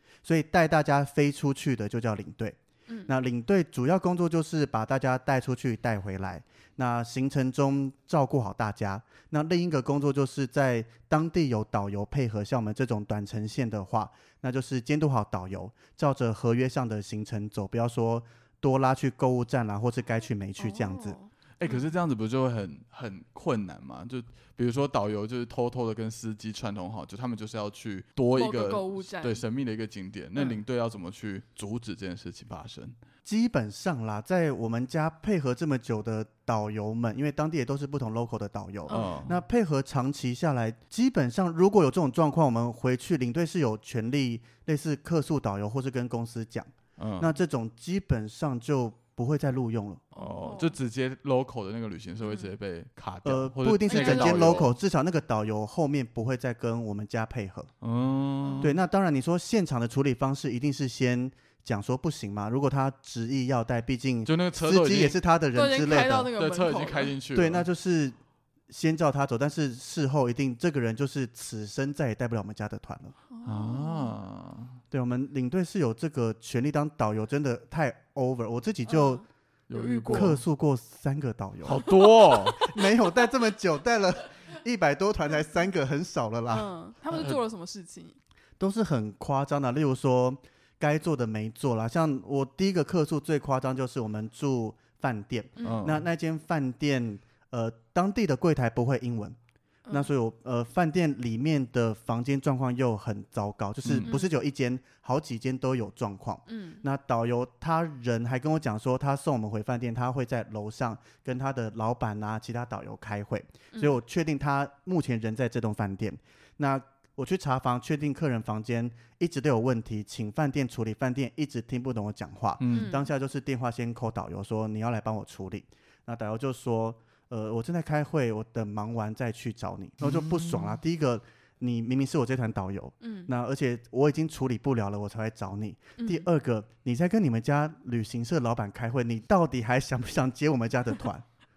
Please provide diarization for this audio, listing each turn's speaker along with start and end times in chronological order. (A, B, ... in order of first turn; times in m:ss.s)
0:00.2-0:21.2 A
0:20.6-0:21.9 B
0:21.6-0:33.0 C
0:28.3-0:29.4 B
0:33.2-0:50.0 A
0:38.9-0:39.2 B
0:38.9-0:39.4 C
0:47.0-0:47.3 C
0:50.1-0:50.8 B
0:50.1-0:54.8 C
0:52.2-0:52.5 B
0:53.2-0:57.7 A
0:53.9-0:54.5 B
0:57.8-0:58.7 C
0:58.4-0:58.7 B
0:58.6-1:06.3 A
1:04.2-1:05.2 C
1:05.5-1:07.1 B
1:06.3-1:07.7 C
1:07.3-1:08.2 A
1:08.7-1:13.1 A
1:13.3-1:14.1 B
1:13.4-1:14.8 C
1:14.9-1:19.2 A
1:18.9-1:20.4 B
1:19.7-1:20.4 C
1:20.1-1:21.9 A
1:21.6-1:22.6 C
1:22.4-1:26.7 A
1:26.5-1:28.2 B
1:27.1-1:27.4 C
1:28.6-1:39.4 A
1:35.6-1:36.0 C
1:39.9-2:21.2 A
1:43.8-1:44.1 C
1:44.0-1:44.3 B
1:46.5-1:46.8 B
2:02.6-2:02.9 C
2:02.7-2:03.1 B
2:10.0-2:10.8 C
2:13.0-2:13.3 B
2:16.0-2:16.2 B